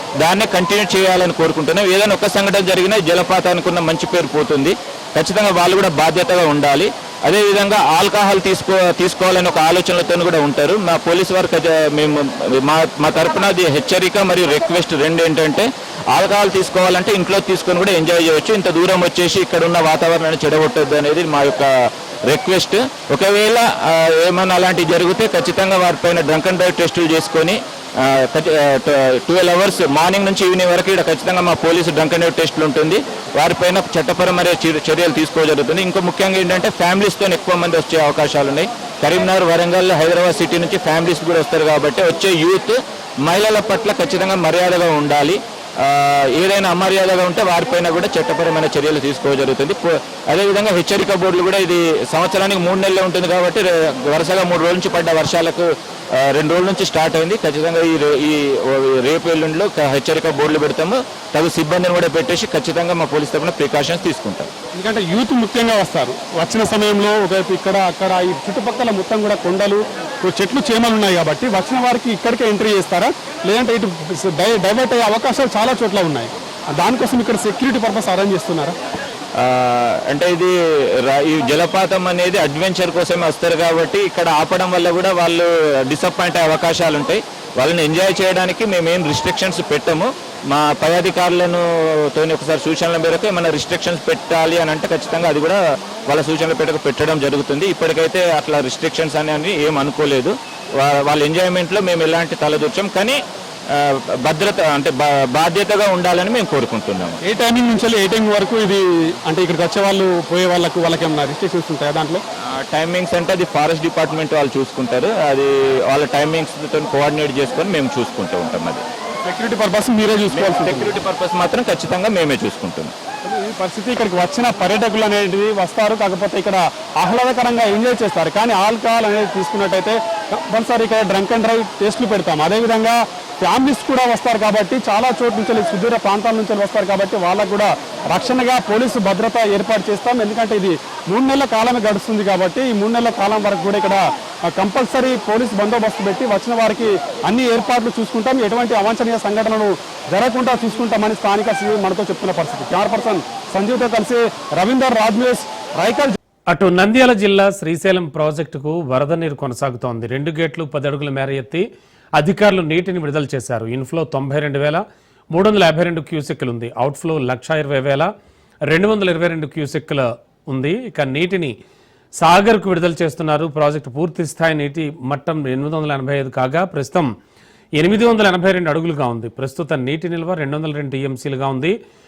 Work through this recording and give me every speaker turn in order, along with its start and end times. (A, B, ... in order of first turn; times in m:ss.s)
0:00.2-1:04.5 A
1:04.8-1:18.7 B
1:19.3-1:47.2 A
1:47.2-1:52.2 B
1:52.5-1:58.8 A
1:59.2-2:00.9 B
2:00.3-2:02.9 A
2:03.2-2:36.2 B
2:36.5-2:41.6 C
2:42.2-2:48.1 C
2:48.7-2:51.5 C
2:52.2-2:57.1 C
2:57.8-3:01.8 C